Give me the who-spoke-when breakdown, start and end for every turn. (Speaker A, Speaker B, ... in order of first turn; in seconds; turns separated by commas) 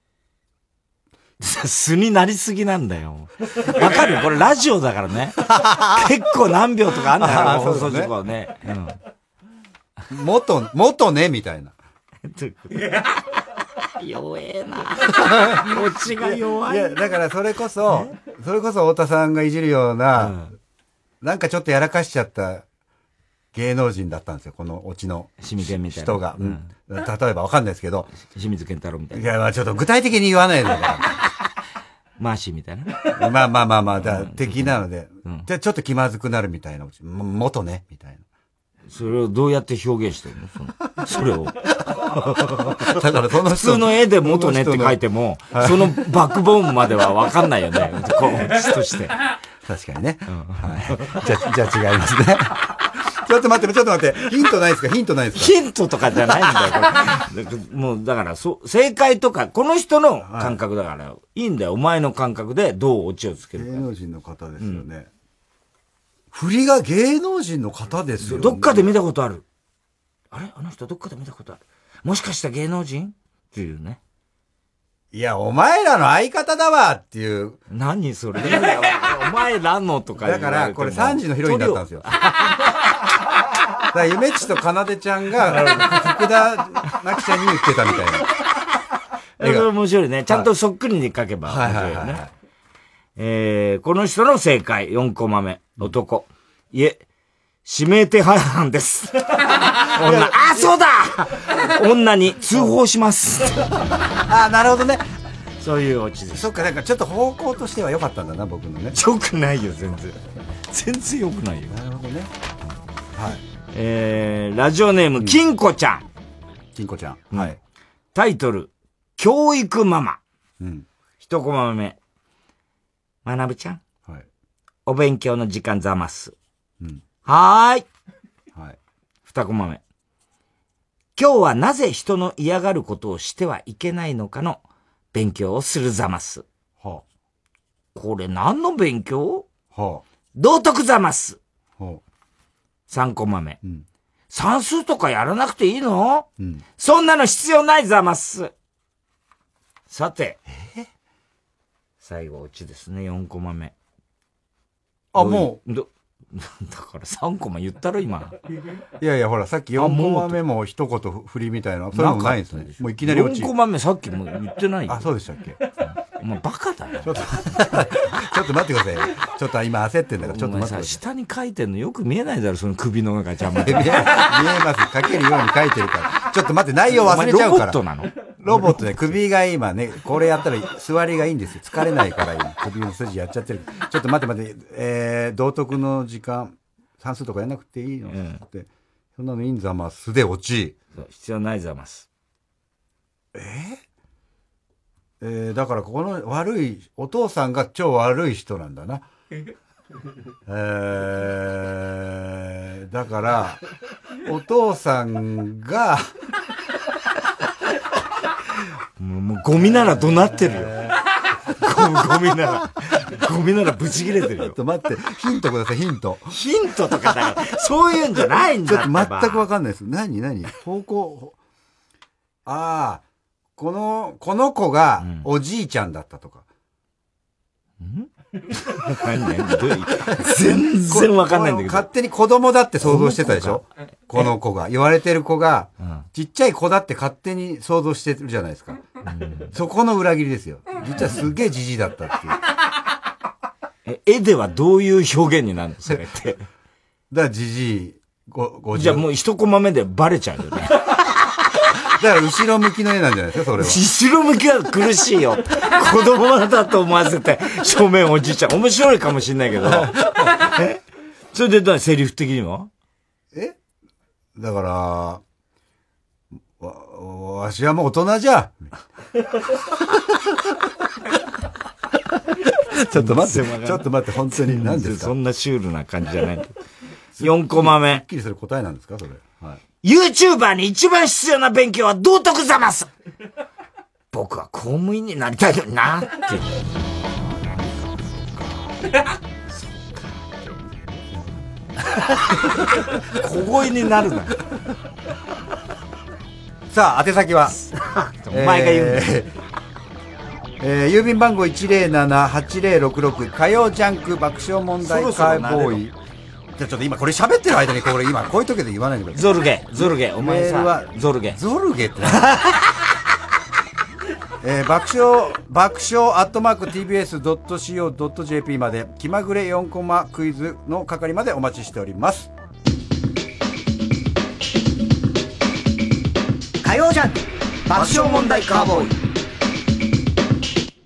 Speaker A: 1.4-9.0, Speaker B: 5.4-6.1, Speaker B: 7.2-8.1, Speaker B: 10.1-11.7, Speaker A: 12.2-13.1, Speaker A: 14.0-16.9, Speaker B: 15.2-20.4, Speaker A: 20.2-20.5, Speaker B: 21.2-22.6, Speaker B: 23.5-28.1, Speaker A: 25.4-26.7, Speaker A: 28.1-29.2, Speaker B: 29.1-31.0, Speaker A: 32.2-33.1, Speaker B: 33.1-38.2, Speaker A: 34.0-35.5, Speaker A: 38.9-42.9, Speaker B: 42.8-45.0, Speaker A: 43.5-49.1, Speaker B: 45.5-46.0, Speaker B: 49.6-55.5, Speaker A: 50.3-51.0, Speaker A: 55.3-63.7, Speaker B: 60.2-60.6, Speaker B: 63.5-65.1, Speaker A: 64.6-64.8, Speaker B: 66.3-68.9, Speaker A: 68.2-69.4, Speaker A: 70.3-74.0, Speaker B: 75.1-77.6, Speaker A: 77.7-82.5, Speaker B: 80.2-82.1, Speaker B: 83.9-88.3, Speaker A: 85.5-85.9, Speaker A: 89.4-92.2, Speaker B: 89.4-89.7, Speaker B: 91.4-92.3, Speaker A: 93.2-97.0, Speaker A: 97.6-103.7, Speaker B: 99.9-100.7, Speaker B: 102.5-102.7, Speaker B: 104.2-105.0, Speaker A: 105.6-106.5, Speaker B: 106.3-109.0, Speaker A: 108.9-110.2, Speaker A: 110.7-111.7, Speaker B: 111.7-112.3, Speaker B: 113.1-113.4, Speaker A: 113.7-116.0, Speaker B: 116.7-117.6, Speaker A: 118.1-120.2, Speaker B: 120.6-120.8, Speaker A: 121.2-122.0, Speaker A: 123.2-123.8, Speaker A: 124.8-126.3, Speaker A: 127.2-127.8, Speaker A: 129.2-129.8, Speaker A: 131.2-134.6, Speaker A: 135.1-136.4, Speaker A: 137.9-139.4, Speaker B: 139.7-140.0, Speaker A: 140.3-141.4, Speaker A: 142.9-143.6, Speaker A: 144.3-146.3, Speaker A: 146.8-148.5, Speaker A: 149.9-150.4, Speaker B: 150.5-150.9, Speaker A: 152.0-153.7, Speaker B: 155.1-155.6, Speaker A: 155.2-158.3, Speaker B: 159.0-163.5, Speaker A: 159.8-160.4, Speaker A: 161.9-165.1, Speaker B: 164.9-165.6, Speaker A: 165.8-167.8, Speaker B: 167.0-171.0, Speaker A: 170.2-174.0, Speaker B: 173.6-177.8, Speaker A: 176.9-179.1, Speaker B: 178.4-190.7, Speaker A: 188.1-188.4, Speaker A: 190.9-192.1, Speaker B: 193.3-193.8, Speaker B: 195.2-199.0, Speaker B: 200.4-203.6, Speaker B: 204.2-206.1, Speaker A: 209.0-210.9, Speaker B: 209.5-211.0, Speaker A: 211.6-214.6, Speaker B: 214.4-216.3, Speaker A: 216.3-219.4, Speaker B: 218.6-221.3, Speaker B: 222.4-223.0, Speaker B: 223.6-226.4, Speaker A: 225.0-225.3, Speaker A: 227.8-231.9, Speaker B: 230.1-238.8, Speaker A: 232.8-233.6, Speaker A: 239.1-239.5, Speaker B: 239.5-242.4, Speaker A: 243.8-246.4, Speaker B: 247.1-249.0, Speaker A: 248.7-250.9, Speaker B: 251.8-253.8, Speaker A: 253.6-260.8, Speaker B: 259.6-260.3, Speaker A: 261.3-262.7, Speaker B: 264.4-265.2, Speaker B: 266.6-268.7, Speaker B: 272.7-275.1, Speaker A: 272.9-276.6, Speaker B: 277.2-279.6, Speaker A: 277.2-278.0, Speaker A: 279.8-282.9, Speaker A: 284.1-286.6, Speaker A: 289.5-290.2, Speaker A: 293.0-294.4, Speaker B: 296.7-297.6, Speaker A: 297.7-299.1, Speaker B: 298.3-299.3, Speaker B: 300.6-305.9, Speaker A: 304.8-305.8, Speaker B: 306.6-312.4, Speaker A: 309.1-311.4, Speaker A: 312.2-312.6, Speaker B: 314.4-322.3, Speaker C: 326.6-328.9